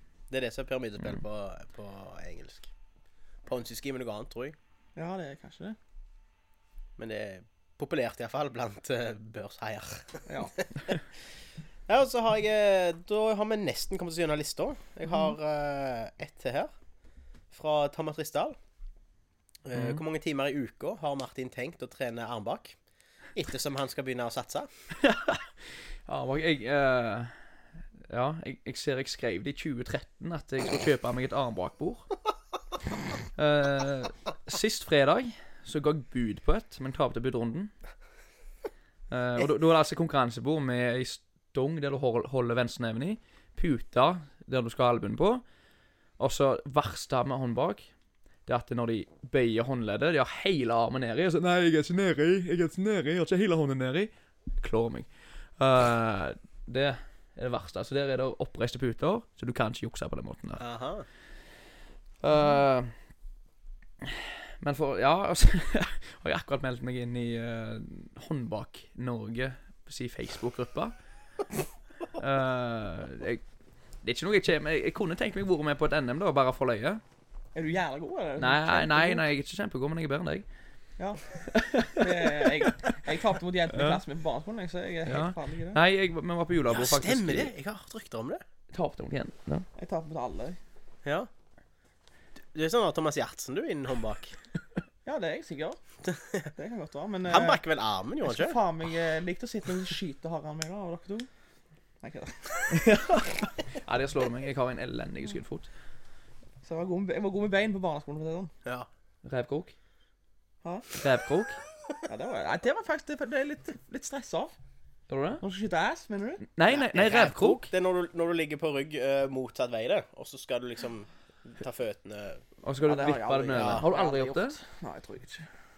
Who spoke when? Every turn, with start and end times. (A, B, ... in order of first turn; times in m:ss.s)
0:00.3-0:02.7 A
0:03.4-0:04.6 A
0:05.0-0:05.8 B
0:07.0-0:10.3 A
0:10.3-0:10.6 B
0:11.9-0:16.7 A
0:17.5-0:18.5 A
0:19.6-0:22.8 A
0:19.7-0:20.0 C
0:23.4-0:24.7 A
0:25.0-0:25.5 C
0:26.0-0:27.4 C
0:28.1-0:32.1 C
0:33.4-0:37.7 C
0:39.1-0:45.4 C
0:46.2-0:47.9 C
0:48.4-1:00.6 C
1:00.6-1:01.0 A
1:02.2-1:02.9 C
1:04.0-1:10.9 C
1:12.1-1:13.4 C
1:14.0-1:17.0 C
1:17.5-1:19.2 B
1:18.4-1:20.4 C
1:21.0-1:25.8 B
1:21.5-1:22.0 C
1:23.7-1:24.0 C
1:25.0-1:27.5 C
1:26.7-1:28.4 A
1:28.7-1:29.6 C
1:29.8-1:30.6 B
1:31.0-1:31.3 A
1:32.5-1:34.4 A
1:35.0-1:35.8 B
1:36.1-1:36.5 A
1:36.6-1:37.6 B
1:37.2-1:38.6 A
1:38.2-1:41.3 B
1:42.0-1:42.8 B
1:42.7-1:45.7 C
1:46.6-1:48.5 B
1:49.2-1:49.7 C
1:50.9-1:51.6 C
1:52.0-1:54.6 B
1:55.1-1:55.4 C
1:55.4-1:56.4 B
1:56.5-1:57.7 C
1:56.7-2:02.4 A
2:02.6-2:04.6 C
2:02.8-2:05.5 B
2:03.5-2:03.9 A